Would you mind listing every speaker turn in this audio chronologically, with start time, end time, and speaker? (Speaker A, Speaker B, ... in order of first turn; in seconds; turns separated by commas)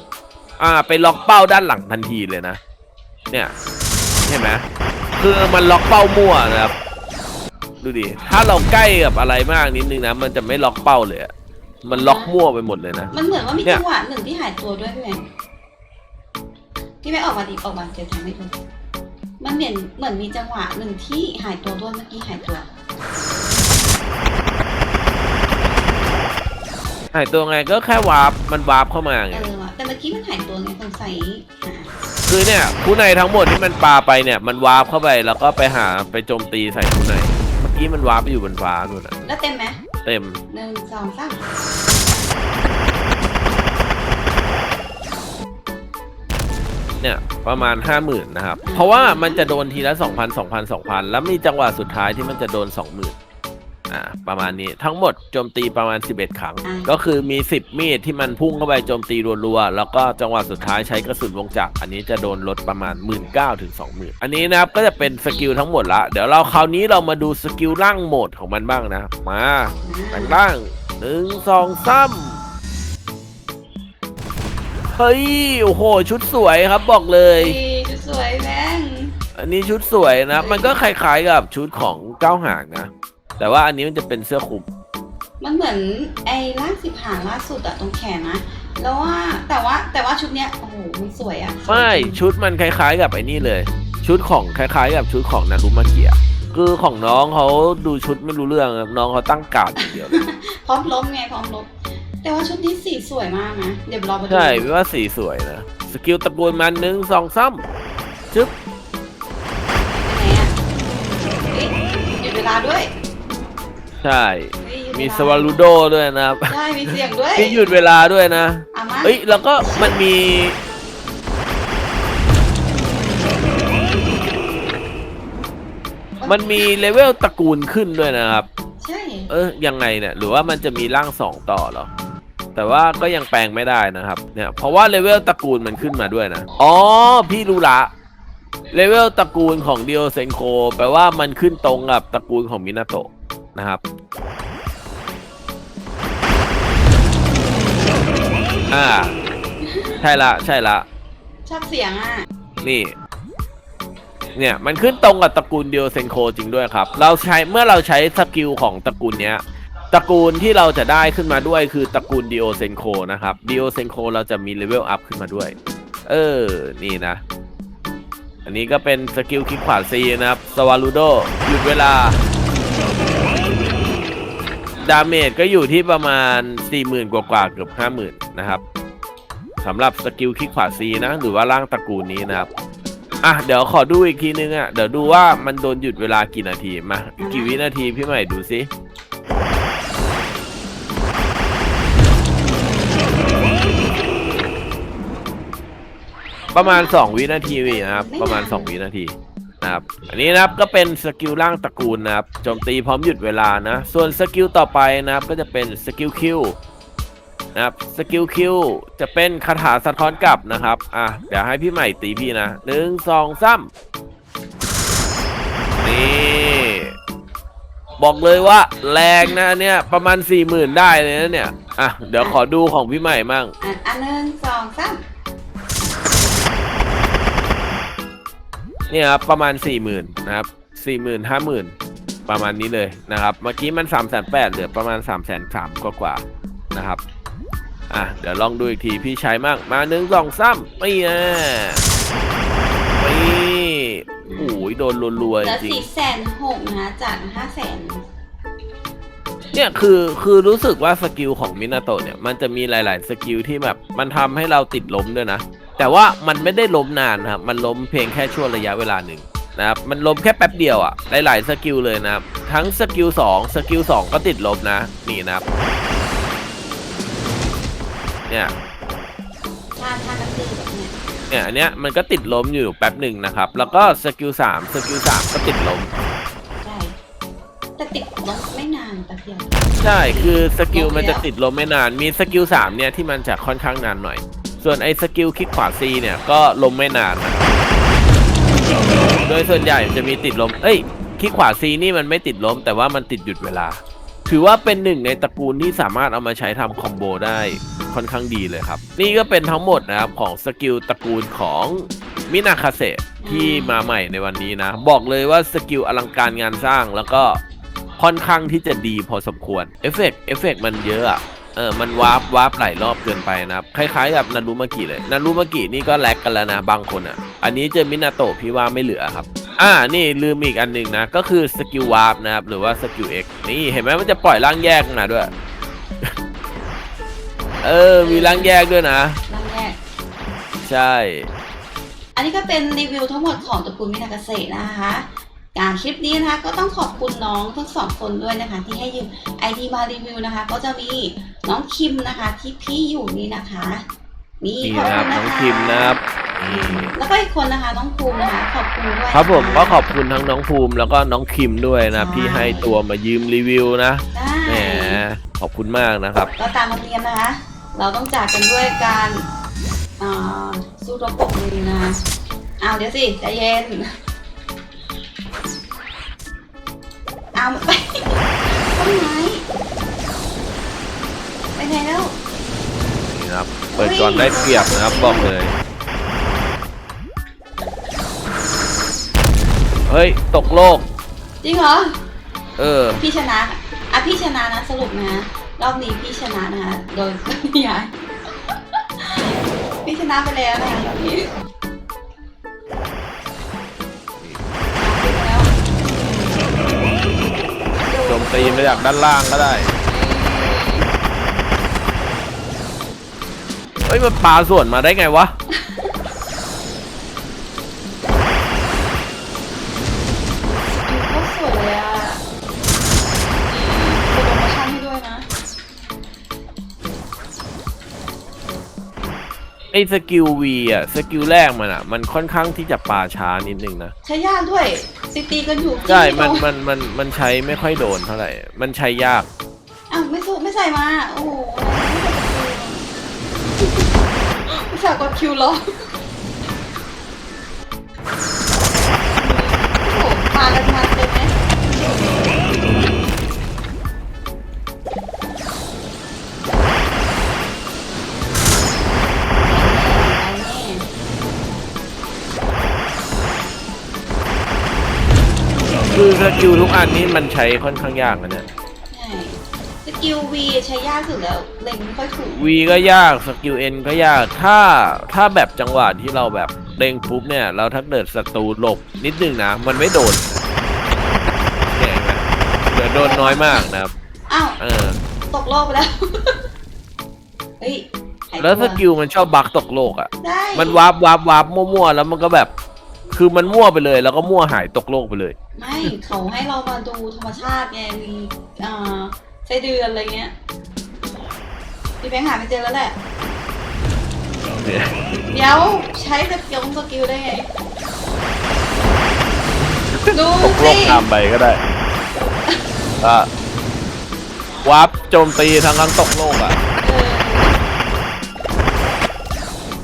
Speaker A: 0.6-2.6, Speaker A: 4.3-4.7, Speaker A: 5.2-6.7, Speaker A: 7.8-11.3, Speaker A: 11.8-13.1, Speaker B: 11.9-12.3, Speaker B: 13.1-15.3, Speaker B: 17.0-18.5, Speaker B: 19.4-22.7, Speaker A: 27.1-29.5, Speaker B: 29.3-31.9, Speaker A: 32.3-39.1, Speaker B: 39.2-39.8, Speaker A: 40.0-40.4, Speaker B: 40.5-41.4, Speaker A: 47.0-53.1, Speaker B: 48.6-49.5, Speaker A: 53.9-72.4, Speaker B: 56.6-56.9, Speaker B: 69.8-70.4, Speaker A: 75.0-77.6, Speaker B: 77.4-79.2, Speaker A: 79.4-84.7, Speaker B: 80.3-80.8, Speaker B: 85.4-92.2, Speaker A: 91.7-100.2, Speaker B: 99.8-104.7, Speaker A: 104.3-107.6, Speaker B: 109.8-110.5, Speaker B: 111.5-112.9, Speaker A: 114.0-120.6, Speaker B: 114.6-115.7, Speaker B: 116.5-117.7, Speaker B: 118.7-120.0, Speaker B: 126.2-126.7, Speaker A: 126.2-128.5, Speaker B: 128.8-129.3, Speaker A: 129.3-131.9, Speaker A: 132.6-137.9, Speaker A: 138.7-143.8, Speaker A: 148.7-149.2, Speaker B: 149.6-150.0, Speaker A: 150.0-150.8, Speaker B: 151.5-152.3, Speaker A: 152.6-152.9, Speaker A: 154.4-165.6, Speaker A: 166.1-167.2, Speaker A: 168.5-172.2, Speaker A: 174.8-178.6, Speaker A: 179.6-182.5, Speaker A: 183.2-188.7, Speaker B: 187.2-187.6, Speaker A: 196.5-206.6, Speaker B: 196.6-197.1, Speaker B: 197.6-198.7, Speaker A: 207.6-213.7, Speaker A: 215.8-216.9, Speaker A: 218.0-223.5, Speaker B: 223.6-225.0, Speaker A: 228.9-231.7, Speaker A: 232.3-237.0, Speaker A: 237.9-241.8, Speaker A: 243.0-245.9, Speaker B: 244.2-244.6, Speaker B: 245.4-248.1, Speaker A: 249.5-265.4, Speaker B: 269.8-270.9, Speaker A: 271.3-276.0, Speaker B: 276.6-276.9, Speaker B: 277.8-281.2, Speaker A: 279.8-287.5, Speaker A: 289.1-307.4, Speaker B: 303.2-303.9, Speaker A: 308.0-325.3, Speaker B: 327.5-328.5, Speaker A: 327.6-329.2, Speaker B: 329.3-329.8, Speaker A: 330.6-331.3, Speaker B: 332.1-343.9, Speaker B: 344.4-349.8, Speaker A: 344.6-346.9, Speaker A: 349.1-356.3, Speaker B: 351.9-352.7, Speaker B: 354.1-355.0, Speaker B: 356.4-359.3, Speaker B: 360.0-362.0, Speaker B: 362.6-363.9, Speaker B: 367.3-369.4, Speaker B: 371.6-372.2, Speaker A: 373.1-375.5, Speaker B: 373.7-375.3, Speaker A: 379.9-380.9, Speaker B: 381.4-381.9, Speaker A: 382.6-383.0, Speaker B: 383.0-387.9, Speaker B: 388.5-389.3, Speaker B: 389.9-391.3, Speaker B: 394.8-395.5, Speaker B: 397.8-398.9, Speaker A: 398.1-399.7, Speaker B: 399.9-400.9, Speaker A: 403.9-405.3, Speaker B: 405.5-405.9, Speaker B: 410.4-412.2, Speaker B: 413.4-415.3, Speaker A: 419.7-423.9, Speaker B: 424.1-426.5, Speaker A: 425.9-429.3, Speaker B: 429.9-432.9, Speaker B: 433.6-433.9, Speaker B: 434.5-435.6, Speaker B: 439.1-441.3, Speaker B: 449.4-450.9, Speaker A: 455.9-458.5, Speaker B: 458.9-462.5, Speaker A: 462.3-470.3, Speaker A: 471.8-473.9, Speaker B: 472.9-473.7, Speaker B: 474.3-474.6, Speaker A: 474.6-475.0, Speaker B: 475.3-476.4, Speaker B: 477.6-478.8, Speaker A: 478.4-482.5, Speaker B: 480.2-480.8, Speaker A: 483.1-485.9, Speaker B: 485.6-490.3, Speaker B: 492.0-493.0, Speaker A: 494.6-494.9, Speaker B: 495.3-497.5, Speaker A: 499.9-501.6, Speaker B: 500.1-501.1, Speaker B: 502.2-502.6, Speaker A: 503.0-503.3, Speaker A: 504.6-506.6, Speaker B: 506.8-507.6